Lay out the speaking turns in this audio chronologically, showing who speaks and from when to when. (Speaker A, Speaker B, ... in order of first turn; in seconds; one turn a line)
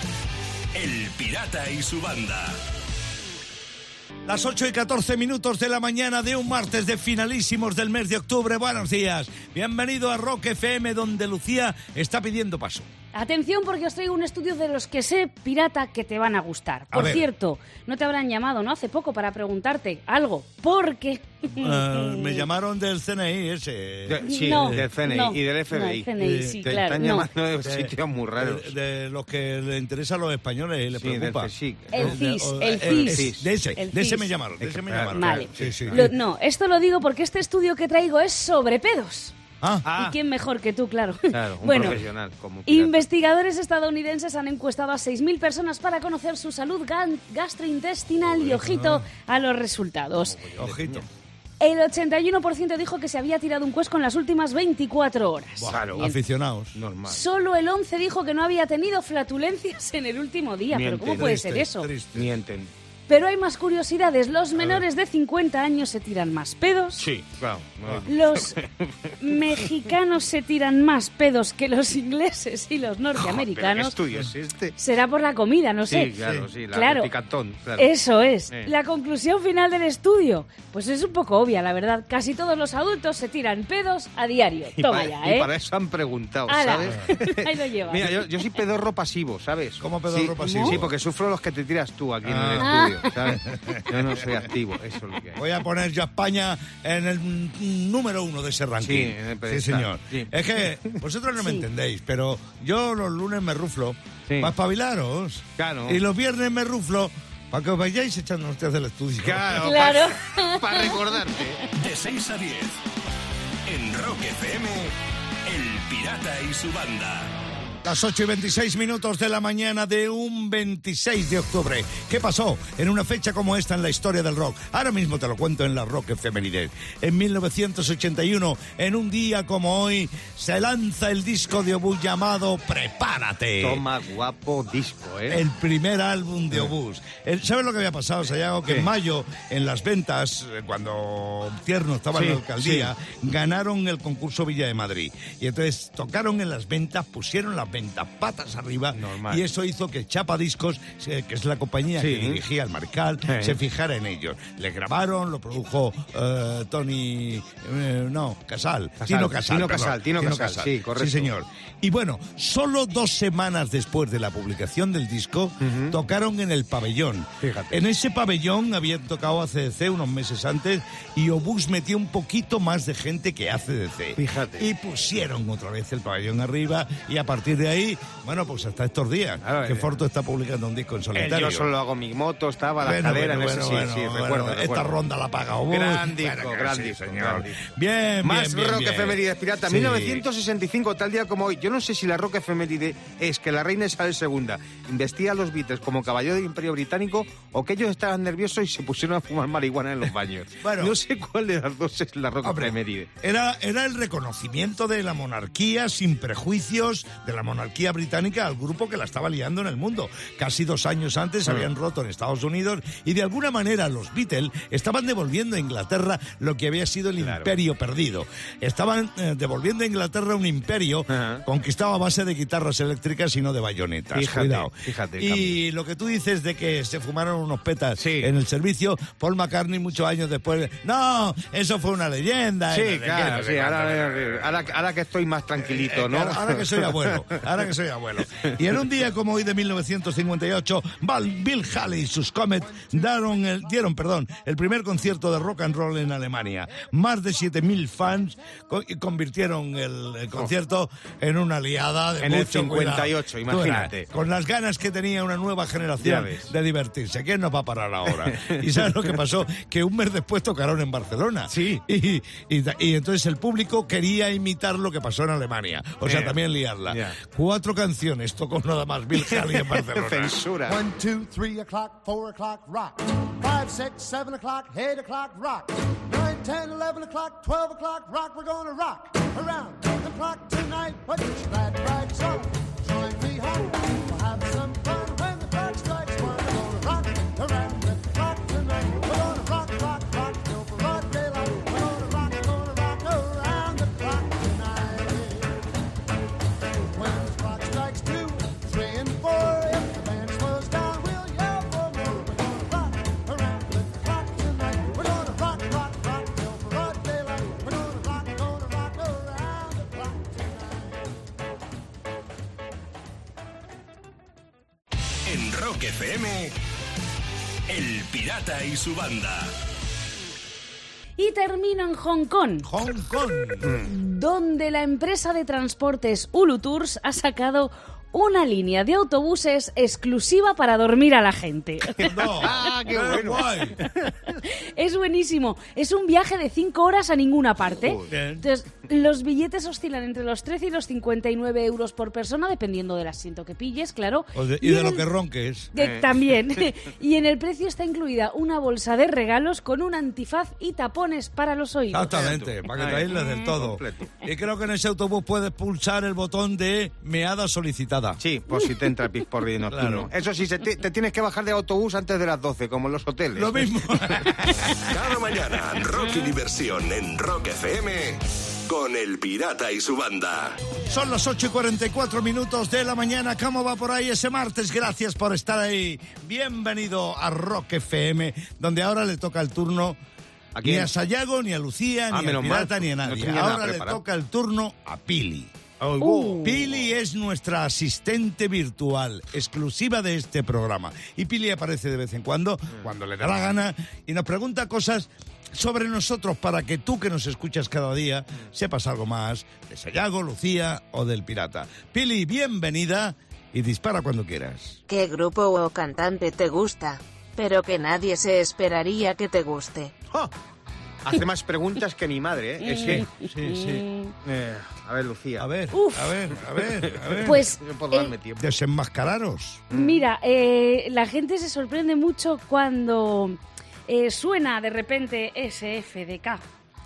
Speaker A: 0.7-2.6
Speaker B: 4.2-12.9
Speaker C: 13.1-22.5
Speaker B: 16.9-17.2
Speaker B: 21.5-24.9
Speaker D: 24.1-28.7
Speaker C: 24.2-27.3
Speaker B: 26.2-26.6
Speaker B: 27.6-36.1
Speaker D: 31.0-33.5
Speaker C: 31.9-34.3
Speaker D: 34.6-36.1
Speaker C: 35.1-39.3
Speaker B: 39.6-39.9
Speaker D: 39.8-40.2
Speaker C: 39.9-42.0
Speaker D: 41.3-43.0
Speaker B: 41.7-42.0
Speaker C: 42.6-50.4
Speaker B: 48.5-49.0
Speaker D: 50.1-51.1
Speaker B: 50.6-51.0
Speaker C: 51.6-56.1
Speaker B: 55.6-56.8
Speaker D: 55.7-56.1
Speaker D: 56.7-57.2
Speaker C: 57.1-61.9
Speaker D: 60.7-61.4
Speaker B: 61.1-62.3
Speaker D: 62.1-62.7
Speaker C: 63.1-67.0
Speaker D: 64.6-64.8
Speaker D: 67.0-69.1
Speaker C: 68.1-68.6
Speaker C: 69.2-73.9
Speaker D: 73.2-74.7
Speaker C: 74.8-76.1
Speaker D: 75.9-77.9
Speaker B: 76.2-76.5
Speaker C: 76.7-77.1
Speaker C: 77.8-85.5
Speaker D: 84.8-95.4
Speaker C: 86.5-88.3
Speaker B: 89.8-90.9
Speaker C: 90.4-90.8
Speaker B: 92.2-93.9
Speaker C: 92.6-93.0
Speaker B: 95.3-109.6
Speaker D: 98.8-100.3
Speaker C: 101.4-101.6
Speaker D: 104.3-104.5
Speaker D: 105.6-106.0
Speaker D: 109.2-111.6
Speaker C: 109.6-111.4
Speaker A: 111.8-112.7
Speaker A: 113.7-114.9
Speaker A: 115.5-117.3
Speaker B: 117.8-133.8
Speaker D: 133.6-135.4
Speaker B: 135.3-181.7
Speaker D: 142.1-142.9
Speaker D: 148.9-149.4
Speaker D: 152.0-152.4
Speaker D: 153.2-153.6
Speaker D: 159.0-161.3
Speaker D: 165.6-166.0
Speaker D: 167.4-167.8
Speaker D: 174.2-174.7
Speaker D: 179.4-179.9
Speaker D: 181.1-184.9
Speaker B: 182.8-190.2
Speaker D: 185.7-187.7
Speaker D: 188.2-203.1
Speaker B: 200.6-201.0
Speaker B: 202.4-234.7
Speaker D: 217.2-217.5
Speaker D: 221.1-221.4
Speaker D: 224.1-225.6
Speaker D: 228.0-228.3
Speaker D: 232.7-237.4
Speaker B: 235.6-270.4
Speaker D: 252.2-254.1
Speaker D: 256.0-256.5
Speaker D: 258.2-258.6
Speaker D: 261.5-261.8
Speaker D: 266.0-267.1
Speaker D: 269.2-270.8
Speaker E: 270.7-295.5
Speaker E: 296.9-311.1
Speaker A: 315.2-316.5
Speaker A: 317.7-319.5
Speaker C: 321.2-322.7
Speaker B: 322.6-323.8
Speaker D: 323.6-323.9
Speaker C: 323.8-332.4
Speaker B: 332.0-333.8
Speaker D: 332.4-333.5
Speaker C: 334.4-345.0
Speaker D: 337.6-338.1
Speaker B: 338.1-338.4
Speaker B: 344.3-345.7
Speaker C: 345.7-352.1
Speaker D: 345.8-346.1
Speaker B: 351.9-358.2
Speaker D: 352.1-354.1
Speaker D: 358.2-364.2
Speaker B: 359.7-360.1
Speaker B: 363.4-364.8
Speaker A: 364.9-370.6
Speaker B: 370.9-380.0
Speaker D: 380.5-380.9
Speaker B: 380.6-385.5
Speaker D: 382.1-384.0
Speaker D: 385.8-386.7
Speaker C: 386.0-386.6
Speaker B: 386.3-404.8
Speaker F: 404.9-409.9
Speaker D: 411.0-413.0
Speaker C: 412.6-414.1
Speaker B: 412.8-413.9
Speaker D: 414.2-415.5
Speaker B: 415.4-417.4
Speaker C: 415.7-416.1
Speaker D: 416.6-418.5
Speaker C: 417.2-418.1
Speaker B: 418.4-419.7
Speaker D: 419.7-420.0
Speaker C: 419.7-426.4